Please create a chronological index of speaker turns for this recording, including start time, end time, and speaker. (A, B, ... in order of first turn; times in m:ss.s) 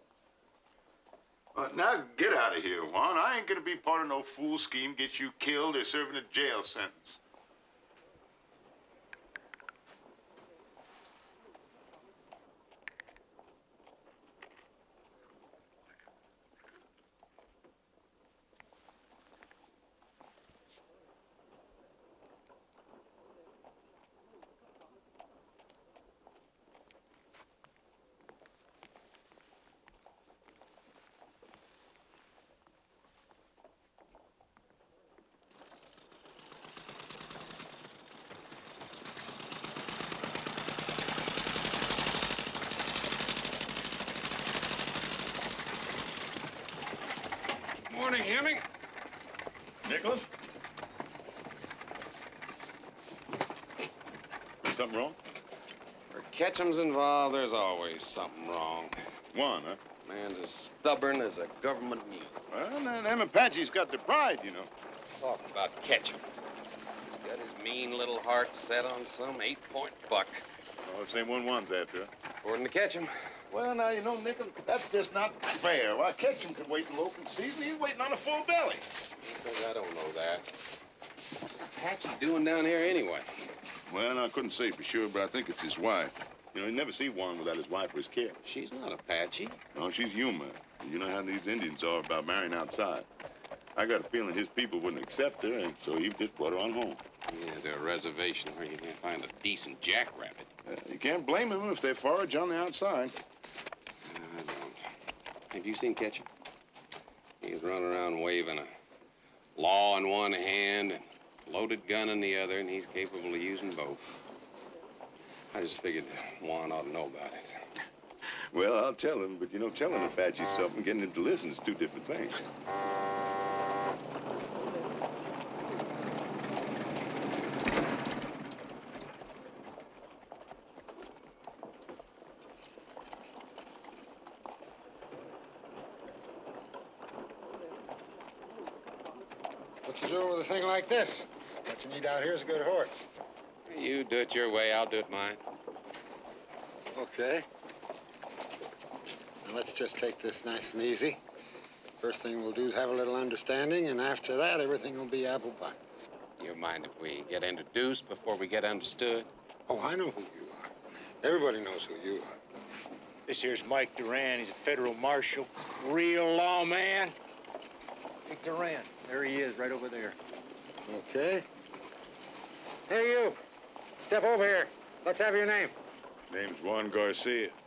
0:01.5-0:07.2 A
0:47.8-0:48.6 B
0:49.8-0:50.2 A
0:54.6-0:55.2 A
0:56.1-0:59.0 B
0:59.3-0:59.8 A
1:00.0-1:02.4 B
1:02.5-1:04.7 A
1:05.2-1:06.2 B
1:07.2-1:10.5 B
1:10.8-1:12.1 A
1:12.4-1:13.4 B
1:13.5-1:18.8 A
1:19.2-1:20.5 B
1:21.4-1:23.3 B
1:23.9-1:28.4 A
1:28.4-1:29.6 B
1:29.7-1:33.0 A
1:33.8-1:37.0 A
1:37.3-1:40.5 B
1:40.6-1:43.1 A
1:44.0-1:44.8 B
1:45.5-1:46.2 B
1:47.4-1:48.7 B
1:49.6-1:54.1 B
1:55.5-1:57.7 B
1:58.5-2:02.4 A
2:19.8-2:23.0 C
2:23.7-2:25.4 B
2:26.9-2:27.4 C
2:29.4-2:31.2 C
2:32.0-2:35.8 C
2:36.4-2:39.3 B
2:39.7-2:42.4 C
2:43.3-2:47.1 D
2:48.2-2:50.2 D
2:50.8-2:51.4 C
2:52.9-2:53.4 C
2:54.0-2:55.7 C
2:56.3-2:57.5 A